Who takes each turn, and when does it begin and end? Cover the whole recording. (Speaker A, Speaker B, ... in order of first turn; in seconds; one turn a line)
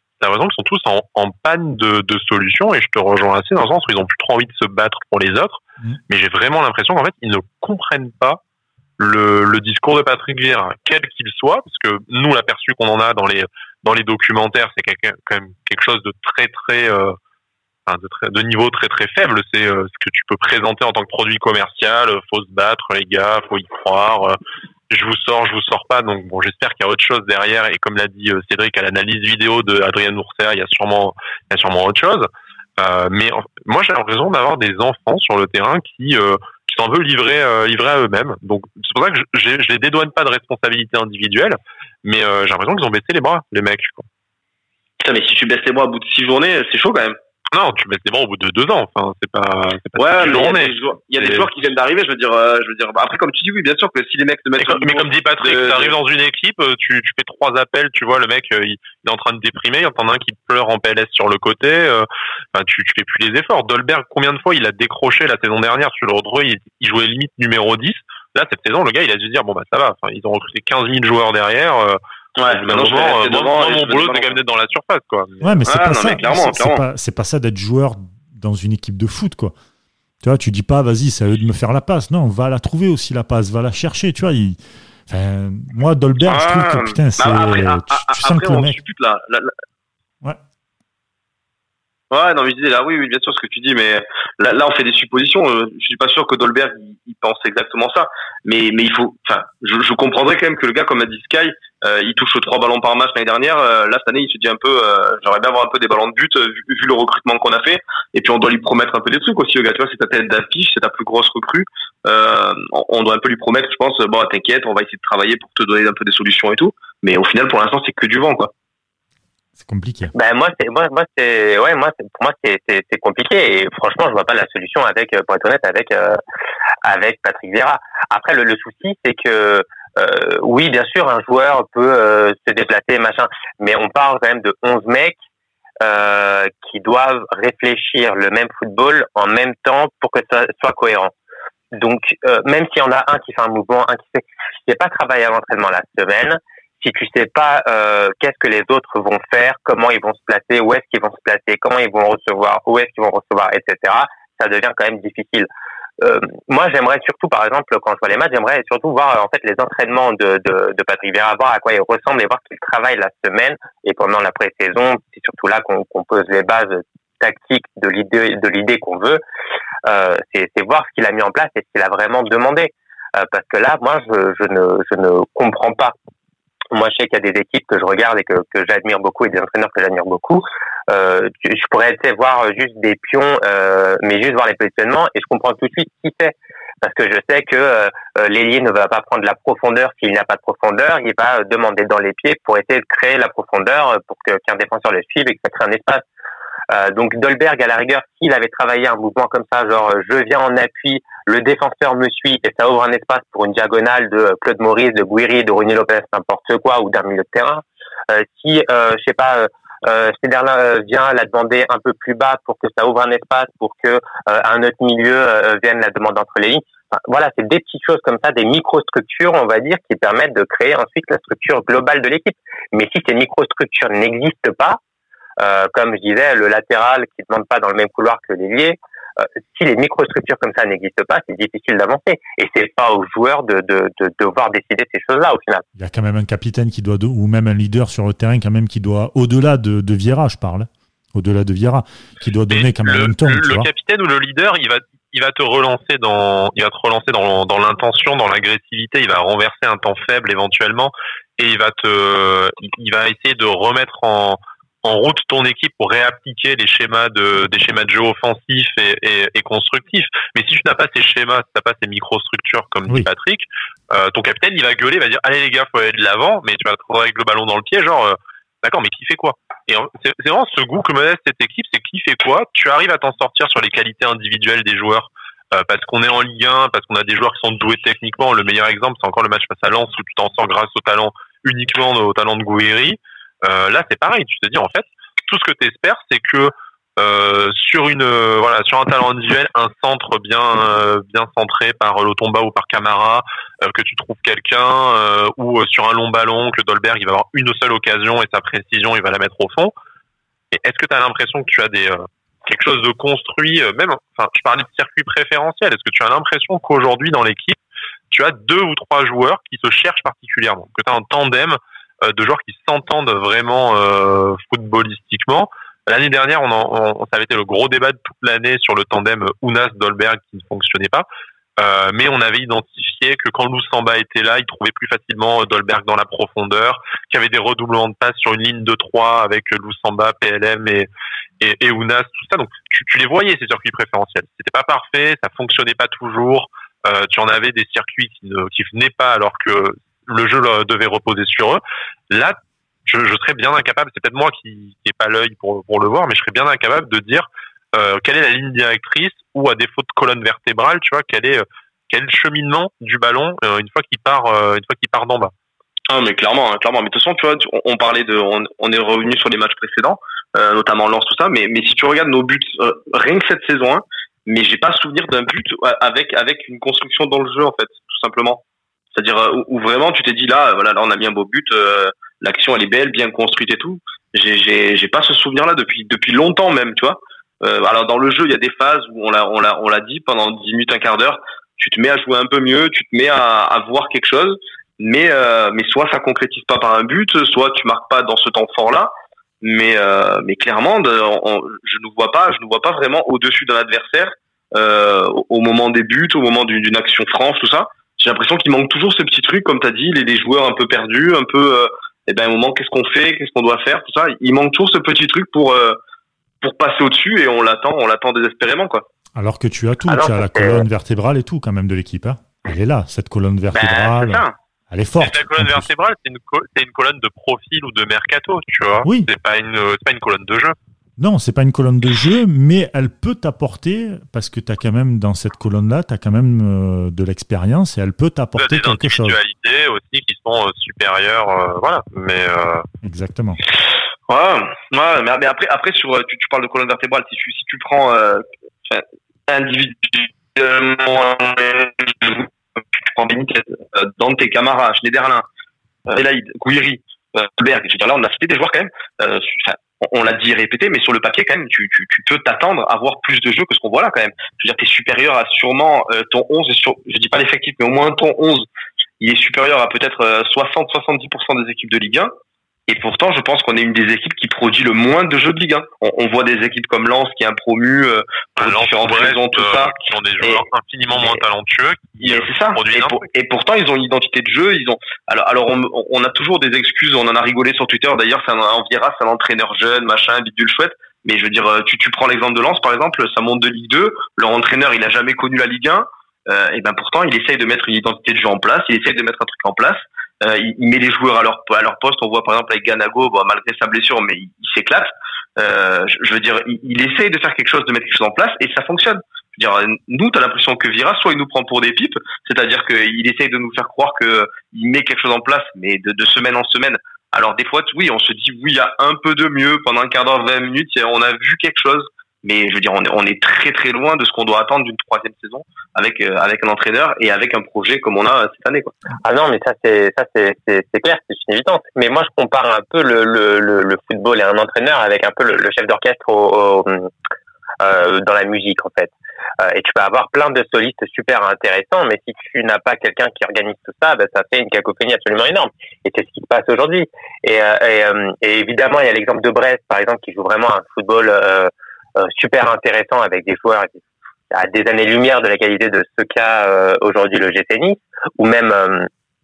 Speaker A: 0.2-8.4
Speaker A: 9.0-17.2
Speaker A: 17.9-24.4
Speaker A: 24.9-44.1
Speaker B: 45.0-47.2
Speaker A: 47.5-51.5
Speaker B: 50.0-56.0
Speaker A: 54.6-75.7
Speaker B: 72.4-74.4
Speaker C: 75.4-79.5
Speaker B: 75.7-76.8
Speaker C: 80.2-88.8
Speaker B: 86.2-89.5
Speaker B: 92.1-118.5
Speaker C: 119.6-120.1
Speaker D: 120.1-126.2
Speaker D: 126.8-135.2
Speaker D: 135.8-141.1
Speaker D: 141.7-155.5
Speaker D: 156.0-169.2
Speaker D: 169.9-175.9
Speaker D: 176.7-196.0
Speaker D: 196.7-224.8
Speaker D: 225.4-235.7
Speaker C: 235.8-243.7
Speaker A: 242.5-299.7
Speaker A: 300.5-307.6
Speaker A: 308.1-321.1
Speaker A: 321.6-330.9
Speaker A: 331.4-355.3
Speaker B: 355.9-368.4
Speaker B: 368.9-405.8
Speaker B: 406.4-408.9
Speaker C: 409.2-415.7
Speaker D: 409.9-410.6
Speaker B: 413.5-414.4
Speaker A: 415.0-420.6
Speaker C: 421.0-429.2
Speaker A: 428.4-432.6
Speaker C: 432.8-433.4
Speaker B: 434.1-445.2
Speaker B: 445.9-458.5
Speaker B: 459.0-462.1
Speaker B: 462.7-470.4
Speaker A: 468.4-473.1
Speaker B: 472.0-518.7
Speaker D: 519.0-526.9
Speaker D: 527.6-543.8
Speaker D: 544.3-548.9